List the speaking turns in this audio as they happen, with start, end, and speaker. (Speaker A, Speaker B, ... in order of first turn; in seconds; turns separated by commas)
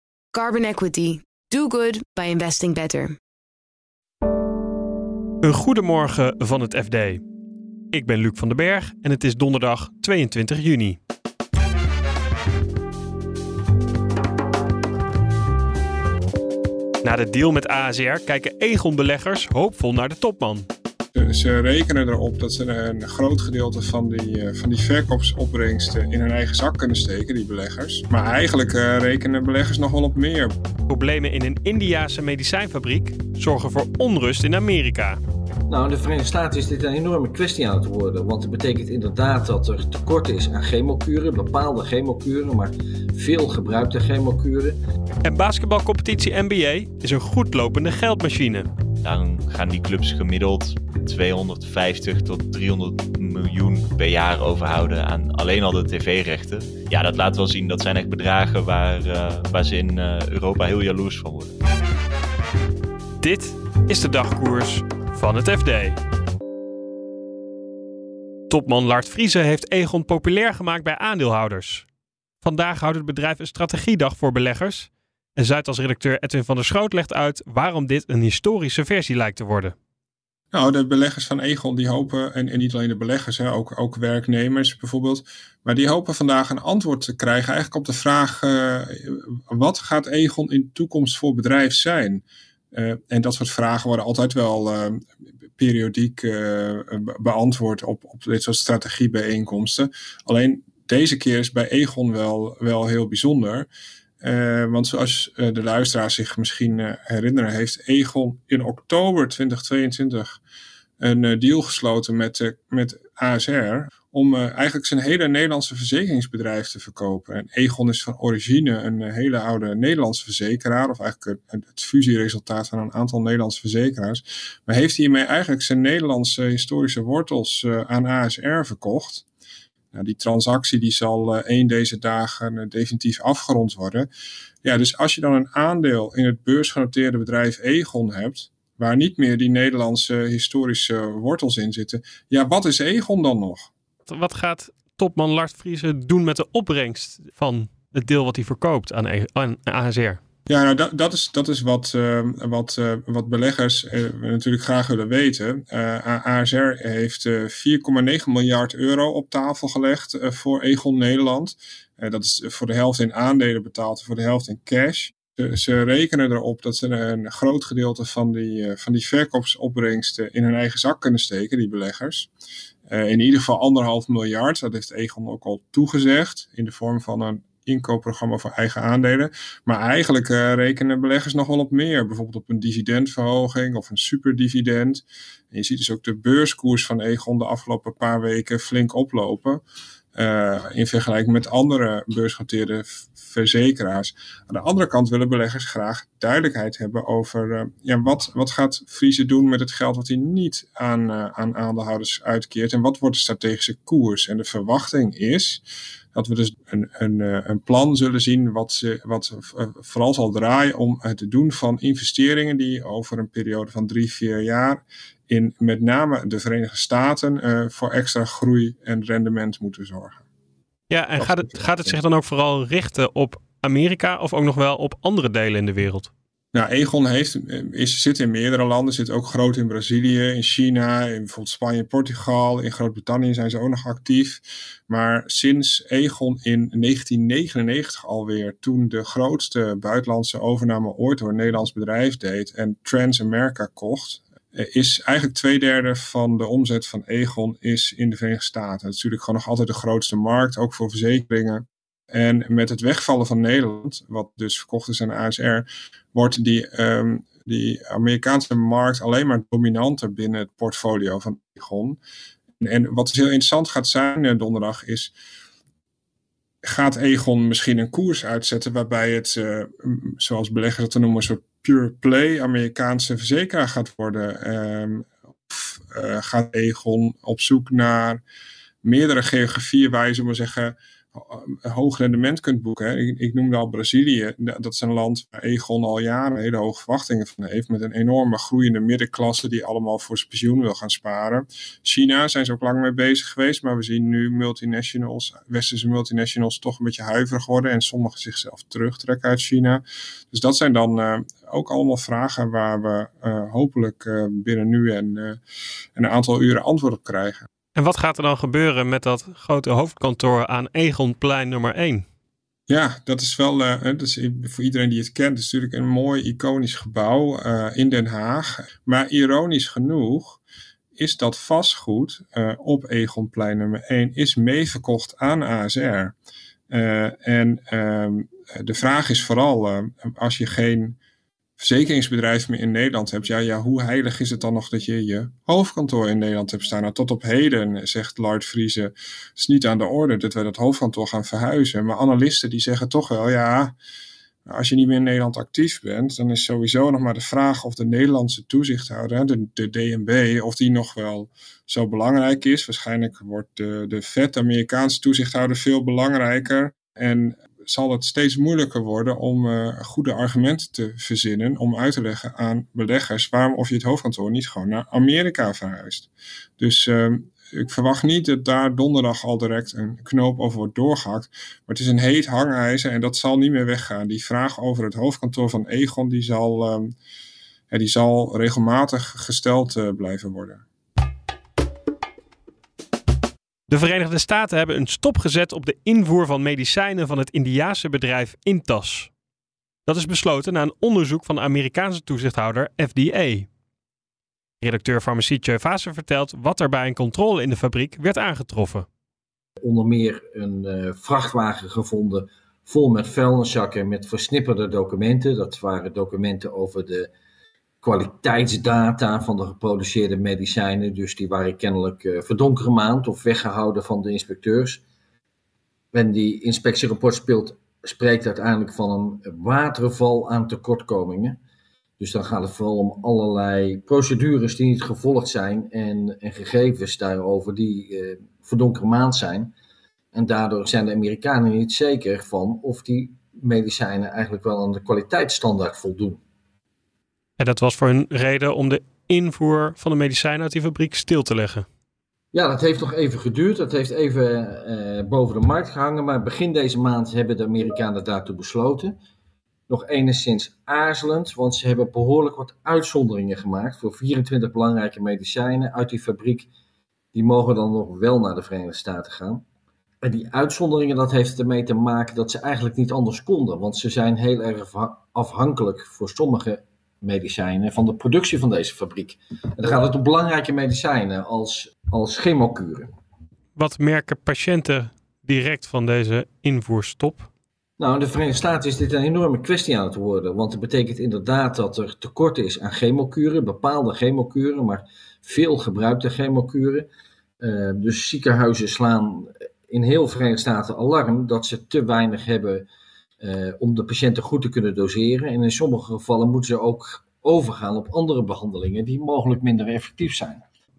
Speaker A: 0.3-3.2, Speaker B: 5.4-7.2, Speaker B: 7.9-11.0, Speaker B: 17.0-20.7, Speaker C: 21.1-30.5, Speaker B: 30.9-35.2, Speaker D: 35.7-44.8, Speaker B: 45.2-48.7, Speaker E: 49.0-61.5, Speaker B: 63.2-66.0, Speaker B: 68.5-71.8, Speaker B: 72.4-79.7, Speaker C: 80.5-95.0, Speaker C: 95.6-103.7, Speaker C: 104.2-110.4, Speaker C: 111.0-129.2, Speaker C: 129.9-134.1, Speaker C: 134.6-143.7, Speaker B: 144.1-150.2, Speaker C: 150.5-172.3, Speaker C: 172.9-189.6, Speaker C: 190.1-205.6, Speaker C: 206.1-220.2, Speaker B: 220.9-226.1, Speaker C: 221.2-221.5, Speaker C: 226.5-262.0, Speaker C: 262.6-265.1, Speaker C: 266.6-278.2, Speaker C: 278.8-305.4, Speaker C: 305.9-307.5, Speaker B: 307.7-312.0, Speaker C: 312.7-320.4, Speaker C: 320.9-326.1, Speaker C: 326.7-331.0, Speaker C: 331.6-343.8, Speaker C: 344.5-376.9, Speaker C: 377.7-380.6, Speaker B: 383.7-389.1, Speaker B: 389.9-393.5, Speaker B: 394.6-398.9, Speaker D: 399.6-407.1, Speaker D: 407.8-414.8, Speaker D: 415.9-421.4, Speaker D: 422.0-429.5, Speaker D: 430.1-436.2, Speaker B: 437.4-441.6, Speaker D: 442.3-448.9, Speaker D: 449.7-456.5, Speaker D: 457.1-459.4, Speaker D: 460.0-472.9, Speaker B: 473.6-477.3, Speaker D: 477.8-486.9, Speaker D: 487.4-492.6, Speaker D: 493.2-500.4